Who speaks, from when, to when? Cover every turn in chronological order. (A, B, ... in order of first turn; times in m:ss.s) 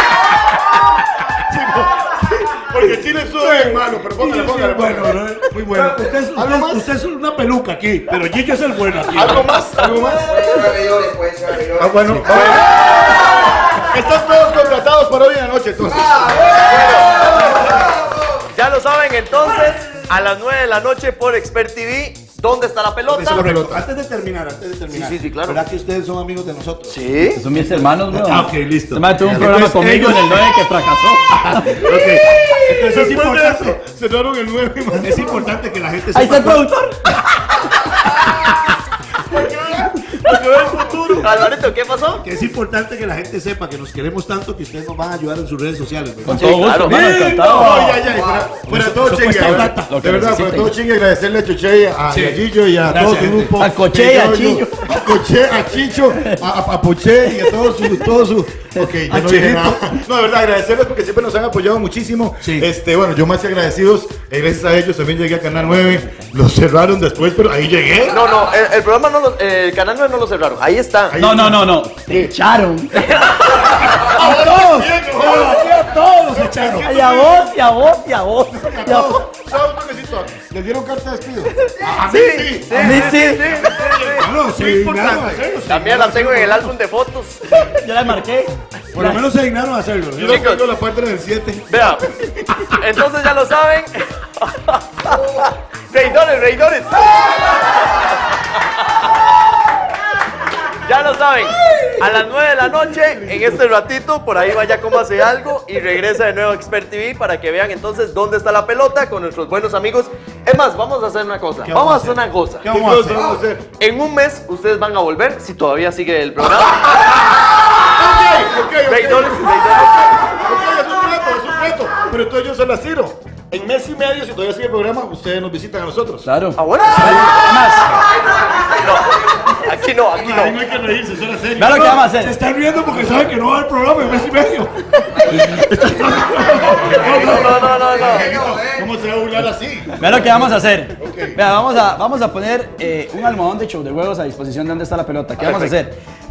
0:01.5-0:02.7 A
0:02.7-0:06.9 B
0:03.4-0:09.6 A
0:09.1-0:10.5 B
0:09.4-0:10.8 C
0:11.6-0:12.9 B
0:12.0-0:12.5 A
0:12.3-0:12.7 C
0:13.9-0:16.7 B
0:16.6-0:17.4 C
0:18.5-0:23.5 C
0:23.1-0:27.0 A
0:23.3-0:23.8 B
0:24.9-0:25.6 C
0:26.9-0:27.4 C
0:27.3-0:31.9 D
0:27.6-0:30.5 A
0:31.7-0:33.8 A
0:32.7-0:35.4 B
0:35.0-0:36.7 A
0:36.1-0:37.0 D
0:39.3-0:42.2 C
0:39.4-0:41.3 B
0:42.2-0:48.0 A
0:46.2-0:47.9 D
0:46.3-0:47.0 C
0:47.4-1:08.2 B
0:48.7-0:50.0 A
0:49.4-0:50.8 D
0:52.1-0:53.6 A
0:53.6-0:55.1 D
0:57.2-0:57.5 D
0:59.1-0:59.8 A
1:08.1-1:11.2 C
1:11.1-1:12.3 B
1:11.2-1:13.8 D
1:14.0-1:16.9 A
1:14.1-1:17.6 B
1:16.8-1:19.3 D
1:18.6-1:25.5 B
1:21.9-1:24.3 C
1:22.7-1:23.7 D
1:24.2-1:26.7 A
1:25.2-1:27.5 C
1:27.5-1:29.2 D
1:28.9-1:30.5 A
1:30.2-1:32.3 B
1:30.2-1:30.6 C
1:31.7-1:32.1 C
1:32.7-1:37.7 C
1:40.8-1:52.7 C
1:51.6-1:53.3 A
1:52.7-1:53.7 B
1:53.8-1:57.2 C
1:58.0-2:06.2 B
1:58.8-2:00.2 C
2:06.2-2:08.0 D
2:06.6-2:07.4 C
2:08.5-2:10.6 C
2:10.2-2:12.1 B
2:11.6-2:12.4 D
2:11.8-2:17.6 A
2:16.1-2:20.1 B
2:17.0-2:18.4 C
2:20.0-2:26.0 D
2:21.0-2:21.4 B
2:25.4-2:25.7 C